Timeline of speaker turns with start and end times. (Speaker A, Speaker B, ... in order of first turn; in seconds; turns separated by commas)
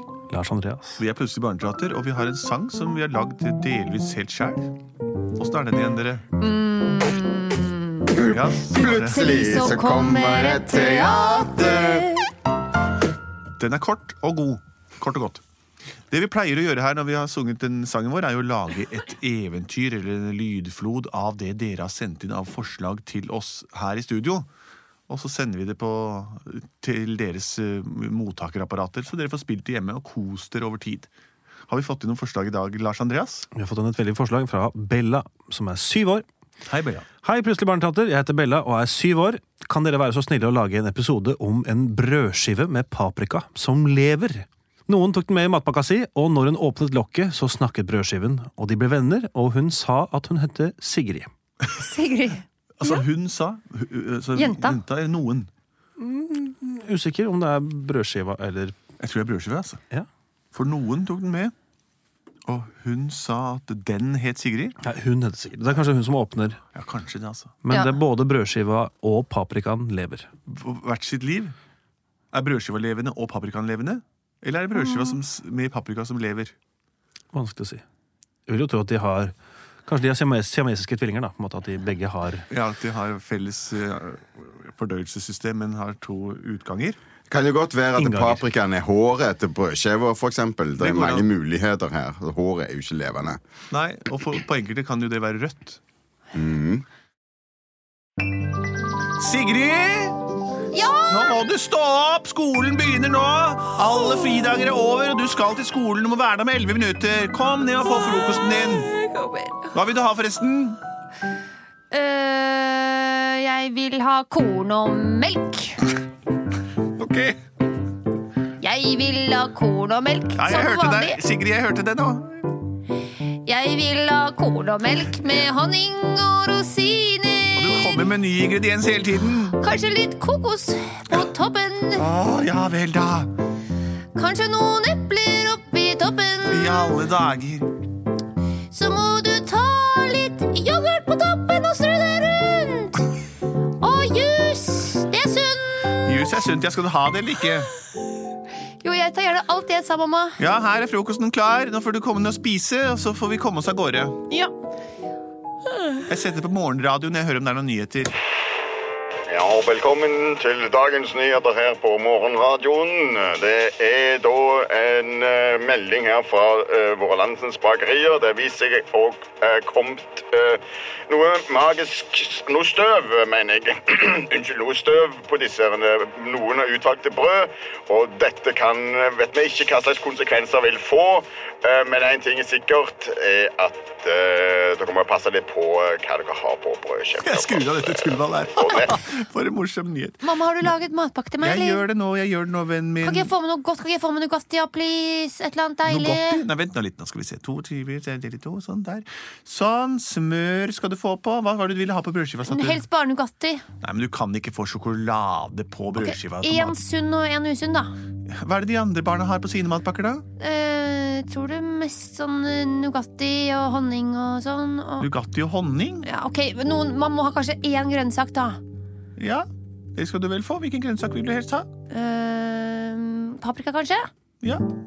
Speaker A: 0.3-1.0, Speaker B: 1.0-4.7, Speaker B: 5.3-6.3, Speaker C: 6.4-8.1, Speaker D: 8.1-12.1, Speaker B: 8.2-9.8, Speaker C: 9.0-12.3, Speaker B: 13.6-15.4, Speaker B: 16.1-24.5, Speaker B: 25.1-31.1, Speaker B: 31.7-33.5, Speaker A: 33.5-36.2, Speaker B: 36.6-37.1, Speaker A: 37.2-51.3, Speaker C: 51.7-53.0, Speaker B: 52.8-55.5, Speaker C: 54.4-54.8, Speaker A: 56.0-58.8, Speaker B: 59.0-59.8, Speaker B: 60.5-61.5, Speaker B: 62.5-64.8, Speaker A: 64.8-66.6, Speaker B: 66.7-67.6, Speaker A: 67.7-70.3, Speaker B: 70.5-71.5, Speaker B: 72.3-76.5, Speaker A: 77.3-77.8, Speaker A: 78.5-79.3, Speaker A: 79.8-82.4, Speaker B: 82.5-87.0, Speaker D: 87.3-93.4, Speaker A: 88.0-88.4, Speaker B: 90.8-91.3, Speaker B: 93.7-95.8, Speaker D: 96.3-96.8, Speaker B: 99.2-100.2, Speaker C: 100.7-101.4, Speaker B: 101.1-108.9, Speaker C: 108.5-109.7, Speaker B: 109.7-110.8, Speaker C: 111.9-115.8, Speaker B: 116.9-117.4, Speaker C: 118.6-121.2, Speaker B: 120.4-122.5, Speaker C: 123.1-128.1, Speaker B: 127.5-129.6, Speaker C: 129.6-132.0, Speaker B: 131.9-133.3, Speaker C: 134.1-136.9, Speaker B: 136.5-137.7, Speaker C: 138.7-143.1, Speaker C: 143.8-146.0, Speaker B: 145.9-147.7, Speaker C: 148.8-150.4, Speaker B: 150.4-154.3, Speaker B: 156.0-158.2, Speaker E: 159.3-187.6, Speaker B: 187.2-190.3, Speaker E: 188.6-188.9, Speaker C: 190.2-191.8, Speaker B: 191.4-193.3, Speaker C: 193.0-196.4, Speaker B: 195.8-202.8, Speaker C: 202.5-203.6, Speaker B: 203.8-206.8, Speaker C: 206.0-207.9, Speaker B: 208.3-210.2, Speaker C: 210.4-215.1, Speaker B: 215.0-216.1, Speaker C: 216.0-218.6, Speaker B: 219.2-221.7, Speaker C: 221.9-224.1